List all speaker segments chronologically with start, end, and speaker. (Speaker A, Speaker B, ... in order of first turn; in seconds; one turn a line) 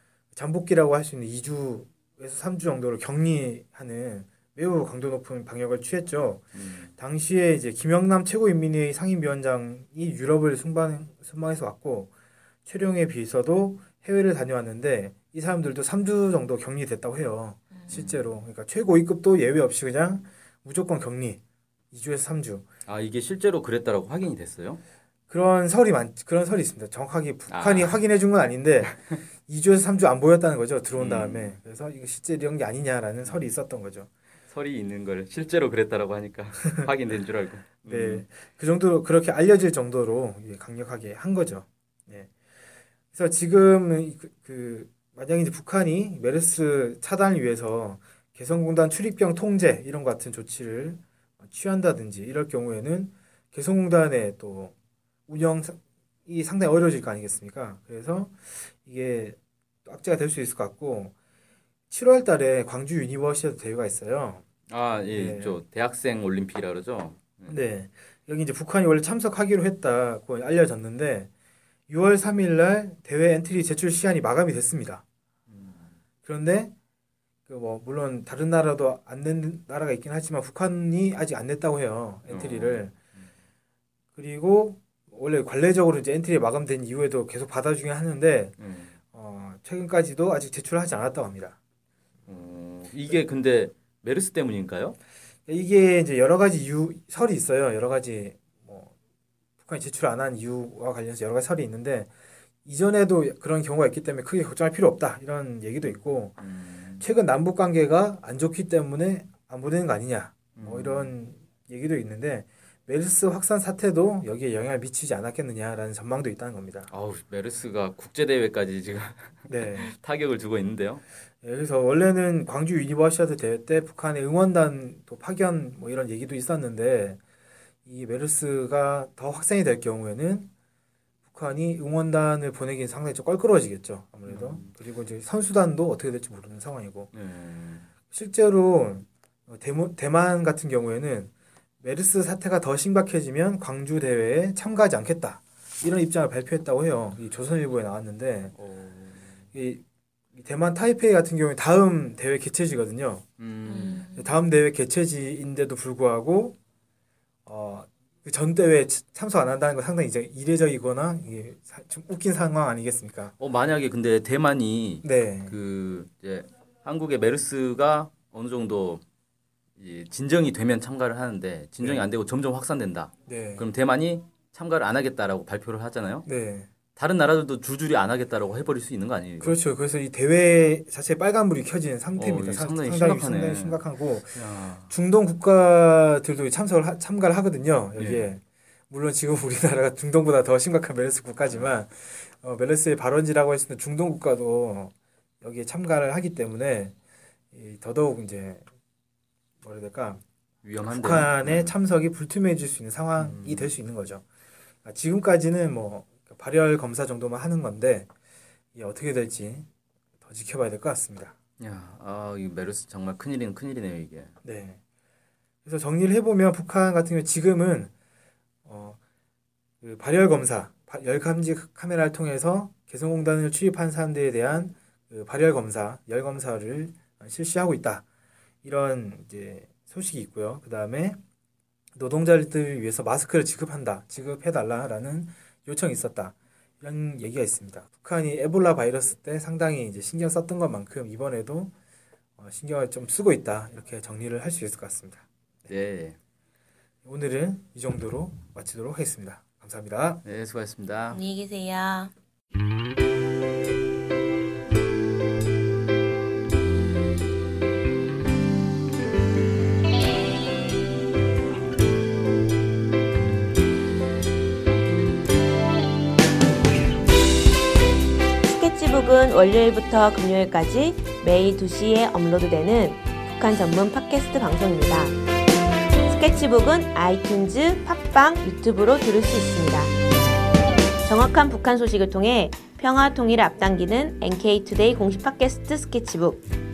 Speaker A: 0.3-12.1
Speaker B: 6.5-6.9
Speaker A: 12.7-21.4
Speaker B: 17.9-18.2
Speaker A: 21.9-22.7
Speaker B: 22.9-24.8
Speaker A: 25.3-34.1
Speaker B: 27.5-27.9
Speaker B: 31.0-31.6
Speaker B: 34.5-38.3
Speaker A: 37.8-42.3
Speaker A: 43.1-54.7
Speaker A: 55.3-61.1
Speaker A: 61.9-64.4
Speaker B: 64.7-67.5
Speaker A: 65.1-65.6
Speaker A: 67.5-71.3
Speaker A: 71.9-75.0
Speaker B: 75.5-75.9
Speaker A: 76.2-76.7
Speaker A: 77.5-82.9
Speaker B: 82.3-82.9
Speaker A: 84.2-88.6
Speaker B: 88.6-88.9
Speaker A: 89.1-91.6
Speaker B: 92.3-95.0
Speaker A: 95.5-98.9
Speaker A: 99.6-102.1
Speaker A: 102.7-106.4
Speaker B: 105.9-107.0
Speaker A: 107.0-116.9
Speaker B: 110.6-111.1
Speaker B: 116.9-121.0
Speaker A: 119.5-119.9
Speaker A: 121.4-127.2
Speaker A: 127.9-130.5
Speaker A: 131.3-137.1
Speaker B: 134.3-134.7
Speaker B: 137.1-137.9
Speaker A: 138.1-148.6
Speaker B: 148.5-149.4
Speaker A: 149.5-149.8
Speaker A: 150.3-153.3
Speaker B: 153.4-154.1
Speaker C: 153.7-154.2
Speaker A: 154.1-156.6
Speaker A: 157.5-163.3
Speaker B: 163.4-169.0
Speaker A: 165.0-165.6
Speaker B: 169.8-176.3
Speaker A: 173.3-173.7
Speaker A: 176.3-176.7
Speaker B: 177.0-179.6
Speaker A: 179.4-196.9
Speaker B: 182.2-183.8
Speaker B: 184.3-184.9
Speaker B: 188.0-188.3
Speaker B: 191.5-191.7
Speaker A: 197.5-198.7
Speaker A: 199.6-200.2
Speaker B: 200.6-201.7
Speaker A: 200.8-204.2
Speaker B: 203.2-203.7
Speaker A: 204.8-208.1
Speaker A: 208.8-209.7
Speaker A: 210.2-211.3
Speaker B: 211.6-214.3
Speaker A: 214.4-214.8
Speaker A: 215.7-217.9
Speaker A: 218.7-219.0
Speaker A: 219.8-228.1
Speaker A: 228.6-231.2
Speaker A: 232.0-241.7
Speaker A: 242.4-245.2
Speaker B: 245.7-246.2
Speaker A: 247.1-250.2
Speaker B: 250.2-251.2
Speaker C: 251.1-252.1
Speaker C: 268.4-275.2
Speaker C: 276.1-279.9
Speaker C: 281.0-286.4